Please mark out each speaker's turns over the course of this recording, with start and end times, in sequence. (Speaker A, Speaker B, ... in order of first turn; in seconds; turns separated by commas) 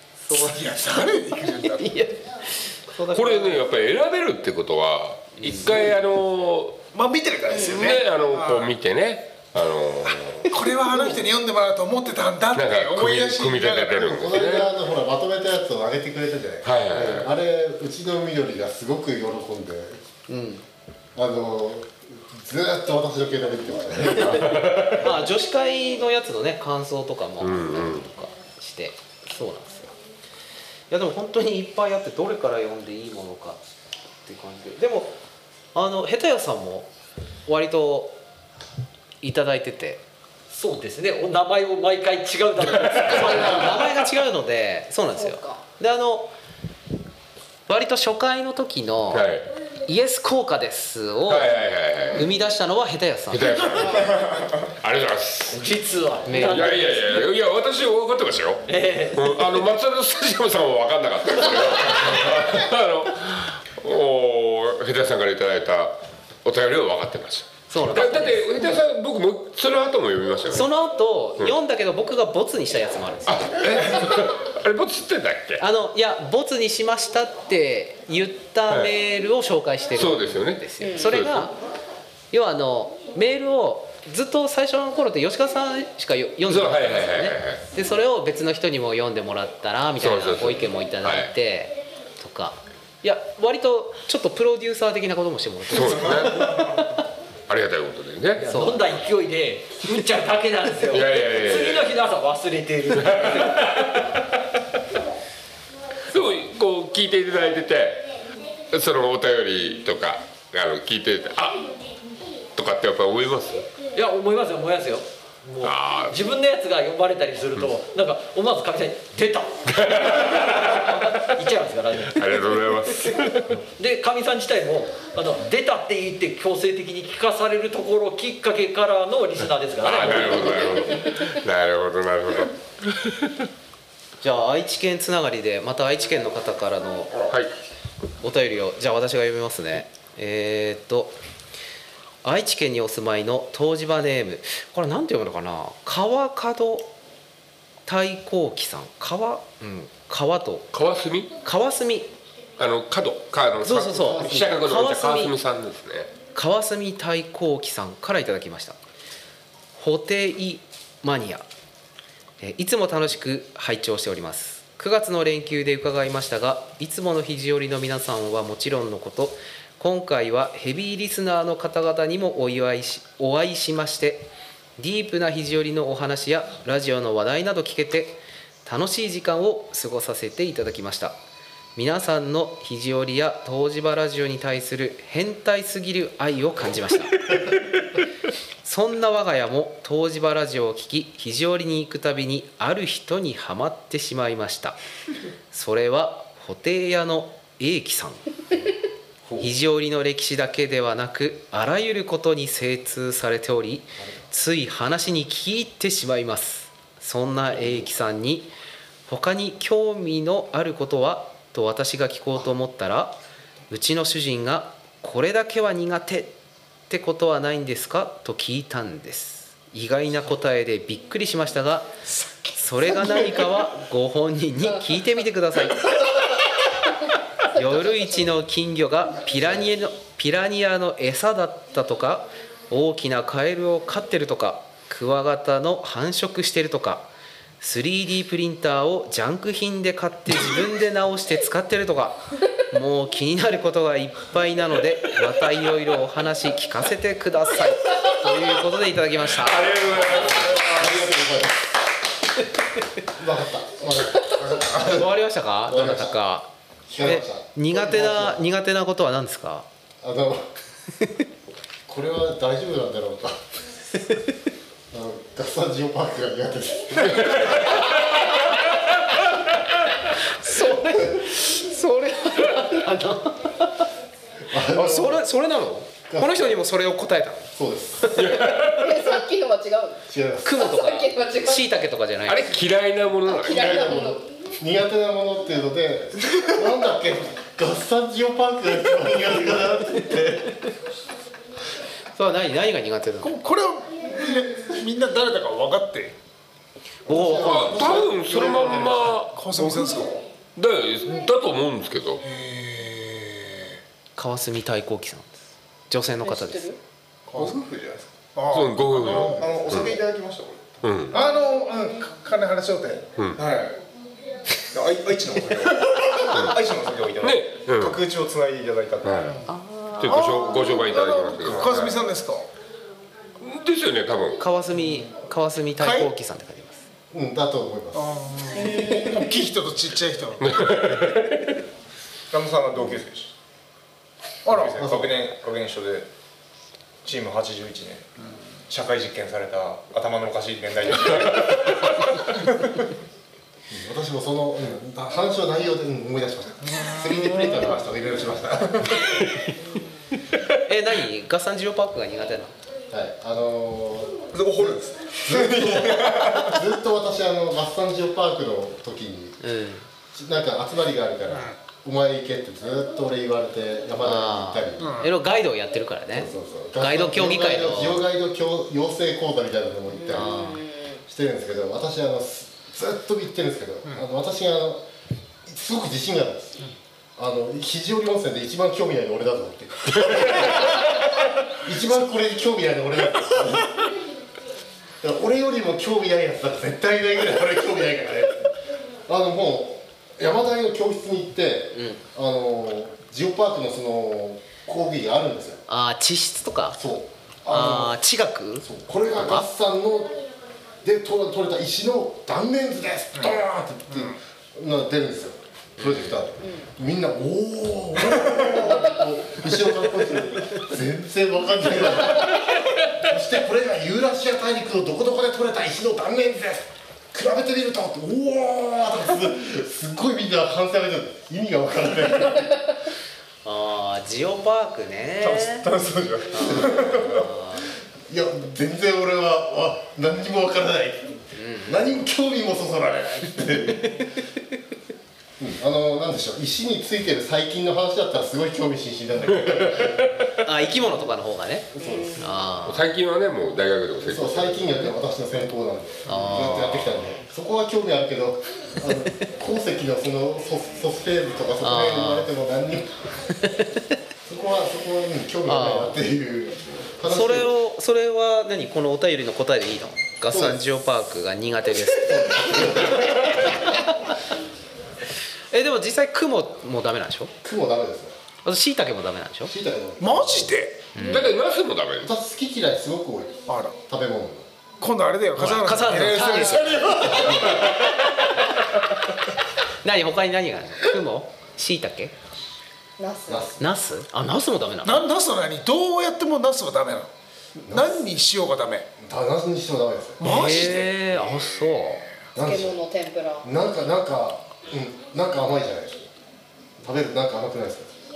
Speaker A: 0.2-3.7, Speaker B: 0.5-1.9, Speaker C: 3.1-6.9, Speaker A: 5.4-5.8, Speaker B: 6.9-8.7, Speaker D: 7.5-8.0, Speaker C: 7.8-10.6, Speaker B: 10.5-14.1, Speaker C: 12.6-14.7, Speaker E: 14.1-20.0, Speaker C: 16.6-17.3, Speaker A: 20.3-20.6, Speaker E: 21.1-24.6, Speaker C: 24.2-25.1, Speaker A: 24.9-29.9, Speaker C: 27.4-28.1, Speaker A: 30.9-33.6, Speaker A: 34.2-35.1, Speaker A: 35.7-36.9, Speaker A: 37.5-38.2, Speaker A: 39.2-40.0, Speaker F: 40.5-44.0, Speaker A: 43.0-46.3, Speaker D: 45.1-45.6, Speaker A: 47.7-49.3, Speaker C: 49.1-49.5, Speaker A: 49.9-51.5, Speaker C: 51.3-52.3, Speaker A: 52.1-53.6, Speaker C: 53.3-55.7, Speaker D: 53.8-54.1, Speaker F: 55.5-57.3, Speaker A: 56.3-56.7, Speaker C: 56.4-70.7, Speaker F: 58.6-59.5, Speaker A: 67.7-68.8, Speaker A: 70.5-73.6, Speaker C: 73.3-75.6, Speaker A: 75.6-81.6, Speaker C: 80.0-81.5, Speaker D: 80.8-81.2, Speaker A: 82.3-97.0, Speaker C: 86.5-87.7, Speaker C: 90.0-91.3, Speaker C: 95.7-96.5, Speaker C: 97.5-98.5, Speaker F: 98.4-103.6, Speaker A: 98.5-99.0, Speaker C: 100.9-101.9, Speaker C: 102.9-104.0, Speaker C: 106.1-108.1, Speaker C: 108.7-111.8, Speaker C: 112.6-113.7, Speaker F: 114.0-122.2, Speaker C: 115.6-116.2, Speaker C: 119.7-120.7, Speaker C: 122.0-123.6, Speaker F: 123.6-130.9, Speaker C: 129.8-133.3, Speaker A: 134.2-137.2, Speaker C: 137.2-137.5, Speaker A: 138.2-141.2, Speaker A: 142.2-146.9, Speaker A: 147.9-150.7, Speaker C: 150.7-151.3, Speaker A: 151.4-152.1, Speaker C: 152.6-156.1, Speaker A: 153.6-155.3, Speaker A: 156.3-158.8, Speaker A: 159.8-161.5, Speaker A: 162.4-181.2, Speaker A: 181.8-187.2, Speaker A: 188.6-194.8, Speaker A: 195.5-198.4, Speaker A: 199.4-208.5, Speaker E: 204.0-204.2, Speaker A: 209.1-213.2, Speaker A: 213.7-216.3, Speaker A: 216.9-221.9, Speaker A: 222.6-226.1, Speaker A: 227.5-250.2, Speaker C: 249.3-251.0, Speaker E: 250.5-251.6, Speaker E: 253.1-255.2, Speaker A: 254.7-259.7, Speaker E: 255.7-256.2, Speaker E: 256.9-258.4, Speaker E: 260.0-260.5, Speaker E: 261.9-263.4, Speaker E: 264.9-267.7, Speaker C: 267.1-268.5, Speaker A: 270.4-273.8, Speaker D: 270.9-271.6, Speaker D: 272.5-272.8, Speaker E: 274.5-275.2, Speaker A: 274.7-277.5, Speaker E: 276.1-276.6, Speaker E: 277.6-278.2, Speaker C: 278.1-279.0, Speaker D: 278.6-280.0, Speaker E: 280.1-280.6, Speaker A: 280.4-282.6, Speaker D: 280.6-281.7, Speaker C: 282.3-283.7, Speaker D: 283.2-284.2, Speaker E: 283.6-290.6, Speaker A: 292.1-293.4, Speaker B: 293.2-296.1, Speaker E: 297.1-299.9, Speaker A: 297.1-298.0, Speaker C: 297.4-299.5, Speaker B: 299.4-300.1, Speaker G: 299.6-300.2, Speaker C: 300.6-302.2, Speaker B: 302.2-303.8, Speaker A: 304.2-306.8, Speaker D: 306.2-306.8, Speaker G: 307.3-308.1, Speaker B: 308.4-309.4, Speaker C: 308.5-310.0, Speaker G: 308.7-310.9, Speaker C: 310.8-311.2, Speaker D: 311.1-312.1, Speaker B: 311.2-313.0, Speaker G: 313.4-313.8, Speaker G: 314.7-319.4, Speaker C: 317.2-318.0, Speaker C: 319.0-319.4, Speaker A: 319.5-320.9, Speaker C: 320.0-322.1, Speaker B: 320.9-322.5, Speaker C: 323.4-324.4, Speaker A: 324.4-326.8, Speaker G: 325.8-326.1, Speaker E: 327.1-328.4, Speaker D: 328.5-329.4, Speaker B: 329.1-330.4, Speaker C: 330.4-331.6, Speaker G: 332.3-333.3, Speaker B: 334.5-334.7, Speaker G: 334.5-336.1, Speaker E: 334.6-335.2, Speaker G: 337.0-338.1, Speaker G: 338.7-342.8, Speaker E: 343.7-349.4, Speaker A: 350.5-352.5, Speaker E: 352.9-359.4, Speaker G: 354.3-356.6, Speaker A: 359.4-359.9, Speaker E: 360.2-365.1, Speaker A: 364.0-368.0, Speaker E: 366.1-370.5, Speaker D: 369.9-371.0, Speaker A: 370.1-370.6, Speaker E: 371.1-374.9, Speaker E: 375.5-380.8, Speaker E: 381.5-383.9, Speaker E: 385.0-395.6, Speaker A: 391.7-392.0, Speaker A: 395.7-396.8, Speaker E: 396.8-398.0, Speaker A: 397.5-398.7, Speaker E: 398.6-400.2, Speaker A: 399.2-399.5, Speaker E: 400.8-422.8, Speaker A: 405.8-406.2, Speaker D: 406.4-406.7, Speaker D: 408.6-409.0, Speaker A: 423.4-425.7, Speaker G: 425.2-427.3, Speaker D: 426.3-426.5, Speaker E: 426.3-427.3, Speaker A: 426.4-427.7, Speaker E: 428.1-434.0, Speaker A: 431.4-431.9, Speaker E: 435.4-440.1, Speaker A: 440.4-442.9, Speaker E: 441.7-442.2, Speaker D: 441.8-442.4, Speaker C: 442.6-444.9, Speaker E: 444.1-453.2, Speaker A: 446.1-446.9, Speaker A: 451.6-452.3, Speaker E: 454.2-457.5, Speaker A: 455.5-456.0, Speaker A: 457.1-463.9, Speaker E: 460.3-460.6, Speaker E: 461.9-463.6, Speaker A: 465.5-467.3, Speaker E: 467.4-468.2, Speaker A: 468.4-469.5, Speaker E: 469.5-470.6, Speaker B: 470.0-470.8, Speaker A: 470.9-471.4, Speaker C: 471.0-472.1, Speaker E: 472.0-474.5, Speaker B: 473.5-473.8, Speaker B: 474.8-476.8, Speaker A: 475.4-477.4, Speaker D: 476.2-476.8, Speaker E: 476.8-477.8, Speaker A: 479.8-482.1, Speaker D: 483.0-483.6, Speaker E: 483.3-483.7, Speaker A: 483.6-485.0, Speaker B: 484.8-487.1, Speaker E: 487.6-488.0, Speaker B: 487.7-488.9, Speaker E: 489.0-490.3, Speaker B: 490.2-490.9, Speaker A: 490.2-492.0, Speaker E: 492.4-492.8, Speaker D: 492.4-493.5, Speaker E: 493.4-496.1, Speaker E: 496.8-497.9